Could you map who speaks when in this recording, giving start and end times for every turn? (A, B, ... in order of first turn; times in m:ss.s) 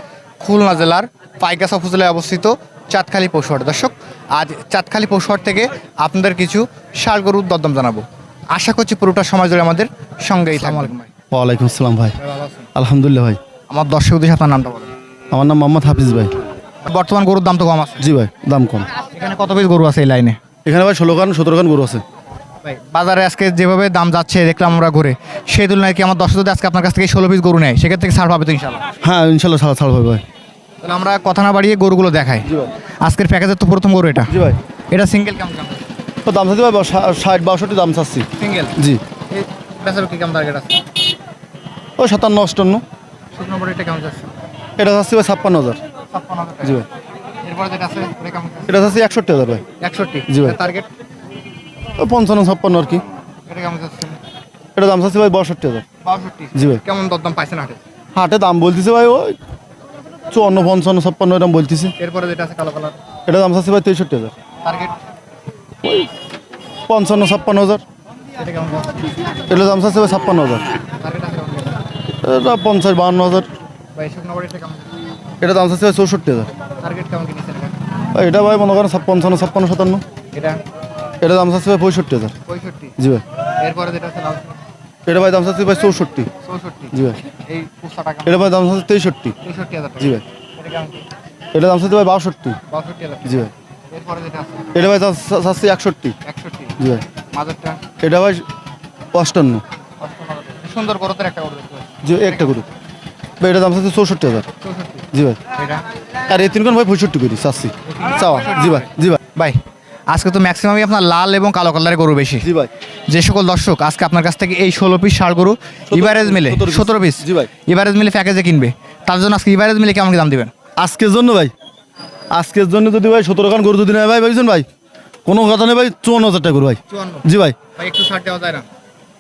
0:00.4-0:11.1 A
0:10.7-0:12.2 B
0:12.2-0:12.7 A
0:12.7-0:13.4 B
0:13.7-0:14.9 A
0:15.3-0:16.4 B
0:16.8-0:18.0 A
0:18.0-0:18.9 B
0:19.1-0:20.4 A
0:20.6-0:22.0 B
0:22.6-0:28.9 A
0:29.0-0:30.2 B
0:30.8-0:32.5 A
0:32.4-0:32.7 B
0:33.0-0:34.4 A
0:34.3-0:34.6 B
0:34.9-0:35.8 A
0:36.3-0:39.0 B
0:38.4-0:38.8 A
0:39.3-0:40.8 A
0:42.0-0:42.8 B
0:43.3-0:44.3 A
0:44.8-0:45.8 B
0:46.1-0:46.8 A
0:47.4-0:48.8 A
0:48.7-0:49.6 B
0:49.8-0:50.9 A
0:50.3-0:50.6 B
0:52.0-0:53.0 B
0:53.5-0:54.2 A
0:54.8-0:55.9 B
0:56.0-0:57.8 A
0:56.5-0:56.8 B
0:58.1-0:59.4 B
1:00.3-1:01.9 B
1:02.0-1:03.0 A
1:03.3-1:04.3 B
1:04.6-1:05.0 A
1:05.8-1:06.1 B
1:06.9-1:07.8 B
1:08.4-1:09.0 A
1:09.5-1:10.7 B
1:11.0-1:11.8 A
1:12.2-1:13.5 B
1:13.9-1:14.9 A
1:15.4-1:16.5 B
1:16.8-1:17.8 A
1:18.1-1:20.0 B
1:20.3-1:20.6 A
1:21.2-1:22.3 B
1:22.4-1:23.0 A
1:23.0-1:23.2 B
1:23.6-1:24.6 A
1:25.0-1:26.3 B
1:26.4-1:28.5 A
1:26.9-1:27.2 B
1:28.2-1:29.4 B
1:29.4-1:31.0 A
1:31.5-1:32.6 B
1:32.7-1:34.7 A
1:33.2-1:33.5 B
1:34.7-1:36.2 B
1:36.2-1:37.8 A
1:36.8-1:37.0 B
1:38.0-1:38.4 B
1:39.1-1:39.6 B
1:40.0-1:42.6 A
1:42.0-1:42.6 B
1:43.4-1:44.5 B
1:44.6-1:45.8 A
1:45.1-1:45.4 B
1:46.2-1:49.2 B
1:47.9-1:52.5 A
1:52.4-1:52.7 B
1:53.1-2:00.5 A
1:55.9-1:57.5 B
2:00.8-2:01.5 B
2:02.3-2:04.7 B
2:05.2-2:07.6 B
2:06.9-2:08.7 A